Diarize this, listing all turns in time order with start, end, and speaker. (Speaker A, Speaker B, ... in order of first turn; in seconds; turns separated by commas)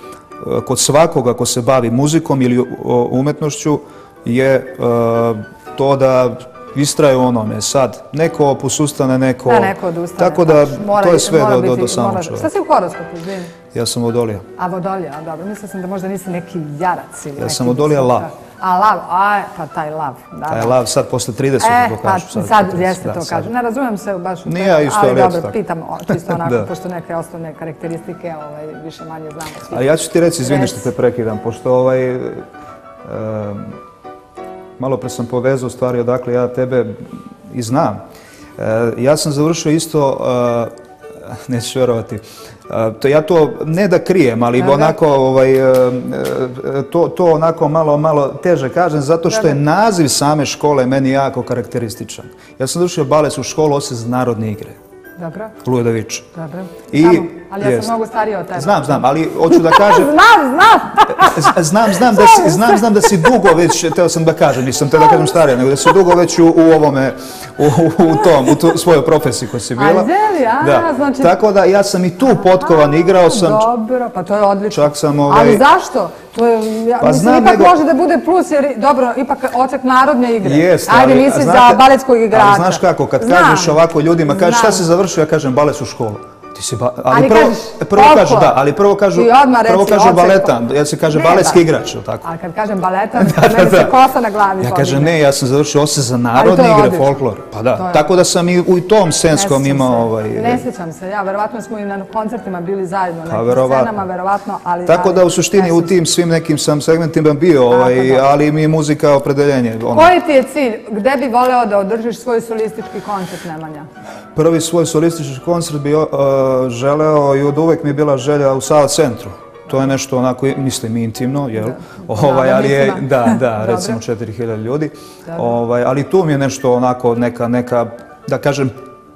Speaker A: 0.4-12.5, Speaker B: 9.4-13.5, Speaker A: 13.7-14.4, Speaker B: 14.6-20.8, Speaker A: 17.4-18.3, Speaker A: 20.5-23.5, Speaker B: 21.6-29.9, Speaker A: 24.4-25.5, Speaker A: 26.1-26.7, Speaker A: 29.7-32.5, Speaker B: 30.4-30.9, Speaker A: 33.0-33.8, Speaker A: 34.8-38.0, Speaker A: 38.6-54.8, Speaker B: 44.6-44.9, Speaker B: 49.3-49.5, Speaker B: 55.2-55.5, Speaker A: 55.6-56.3, Speaker B: 56.3-63.2, Speaker A: 56.9-57.9, Speaker A: 58.5-60.1, Speaker A: 61.0-73.7, Speaker B: 69.8-71.3, Speaker B: 72.6-84.8, Speaker A: 74.7-75.7, Speaker A: 77.0-77.7, Speaker A: 80.4-92.2, Speaker B: 87.1-88.6, Speaker B: 89.1-90.5, Speaker B: 91.1-91.6, Speaker B: 92.2-95.2, Speaker A: 93.2-94.0, Speaker A: 94.6-100.6, Speaker B: 96.3-97.1, Speaker B: 97.7-98.1, Speaker B: 99.3-105.9, Speaker A: 103.3-103.9, Speaker A: 104.8-110.1, Speaker B: 107.7-108.3, Speaker B: 109.9-113.9, Speaker A: 114.3-128.8, Speaker B: 121.6-124.0